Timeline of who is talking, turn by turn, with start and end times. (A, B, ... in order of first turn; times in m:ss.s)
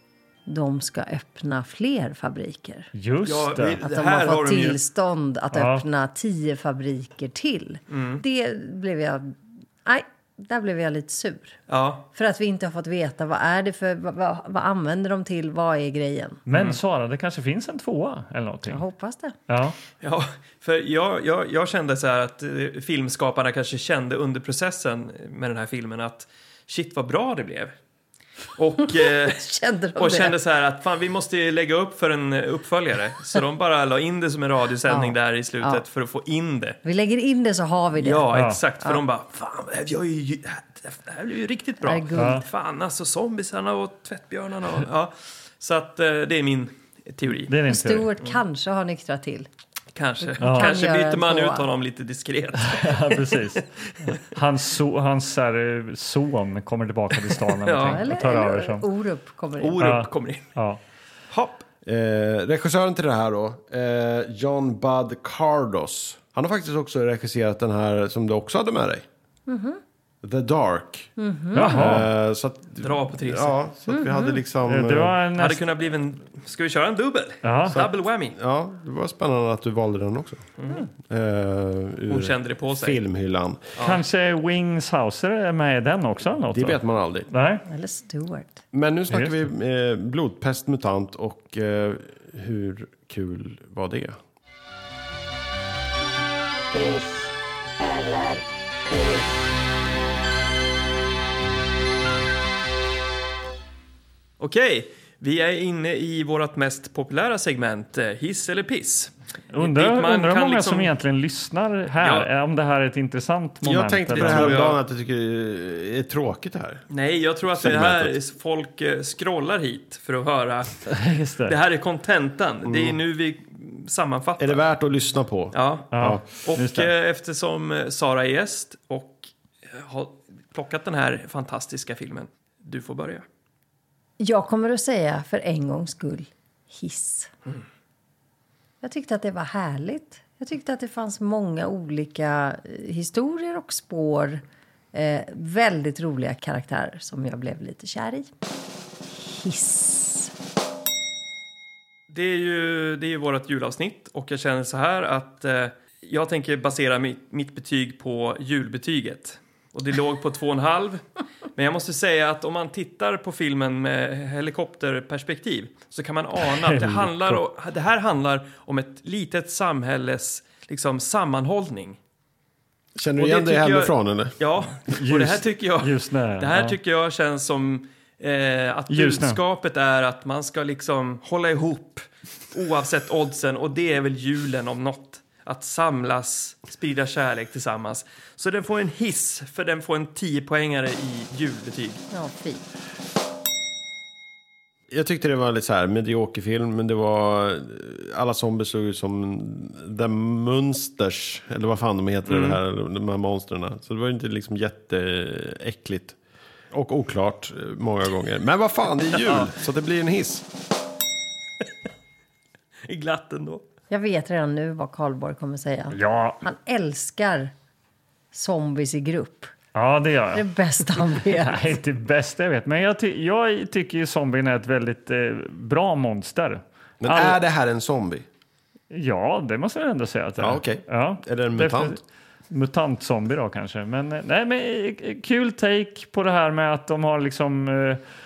0:00.4-0:02.9 A
0:02.9-0:03.8 B
0:03.2-0:04.8 C
0:03.8-0:11.6 A
0:05.5-0:05.8 B
0:07.9-0:08.2 C
0:11.7-0:12.0 C
0:12.1-0:16.4 A
0:16.5-0:18.8 B
0:16.5-0:16.8 C
0:18.7-0:19.4 A
0:19.5-0:19.8 B
0:20.0-0:27.7 C
0:28.6-0:29.4 C
0:28.9-0:30.4 A
0:30.0-0:36.8 C
0:34.9-0:35.8 A
0:36.8-0:38.3 A
0:38.0-0:47.5 C
0:38.3-0:38.6 B
0:41.8-0:42.4 A
0:42.1-0:42.4 B
0:47.5-0:48.1 B
0:47.7-0:49.5 A
0:49.9-0:54.1 C
0:50.2-0:51.7 A
0:50.4-0:50.7 B
0:52.7-0:58.8 B
0:57.3-0:58.0 C
0:57.8-0:59.8 A
0:59.6-1:00.5 C
0:59.8-1:00.8 B
1:01.3-1:01.6 C
1:01.8-1:09.0 D
1:09.5-1:09.8 A
1:10.2-1:11.1 D
1:11.2-1:11.9 A
1:11.5-1:12.1 B
1:11.6-1:15.2 D
1:12.8-1:13.6 C
1:13.9-1:14.4 A
1:14.6-1:15.6 B
1:15.3-1:18.4 C
1:17.4-1:17.8 B
1:17.7-1:20.4 D
1:20.6-1:20.9 C
1:21.1-1:23.7 D
1:22.1-1:23.0 C
1:23.8-1:24.0 C
1:23.8-1:26.8 B
1:26.5-1:27.3 D
1:27.3-1:27.6 B
1:27.7-1:28.6 A
1:28.7-1:34.2 D
1:29.1-1:29.5 B
1:44.4-1:50.9 C
1:49.5-1:54.6 B
1:52.0-1:52.3 C
1:53.6-1:56.8 D
1:54.1-1:54.8 C
1:56.9-2:00.8 C
1:57.5-1:58.1 D
2:00.8-2:01.5 B
2:01.4-2:04.6 C
2:02.6-2:03.0 D
2:04.4-2:06.2 D
2:05.5-2:13.2 C
2:05.9-2:06.9 B
2:14.2-2:17.3 A
2:18.8-2:28.3 A
2:29.1-2:30.3 A
2:32.1-2:41.0 C
2:41.6-2:52.0 C
2:46.6-2:47.4 B
2:53.0-2:54.4 D
2:53.2-3:12.0 C
2:54.9-2:56.8 B
2:58.9-2:59.4 B
3:12.1-3:12.6 A
3:14.9-3:26.2 D
3:22.3-3:22.6 C
3:26.7-3:30.4 D
3:29.2-3:29.5 C
3:32.8-3:33.6 C
3:33.9-3:37.5 A
3:35.9-3:36.4 B
3:38.3-3:39.5 A
3:39.7-3:47.4 B
3:40.3-3:41.7 A
3:47.0-3:48.2 D
3:48.9-3:52.0 B
3:50.4-3:52.0 D
3:52.5-3:58.0 B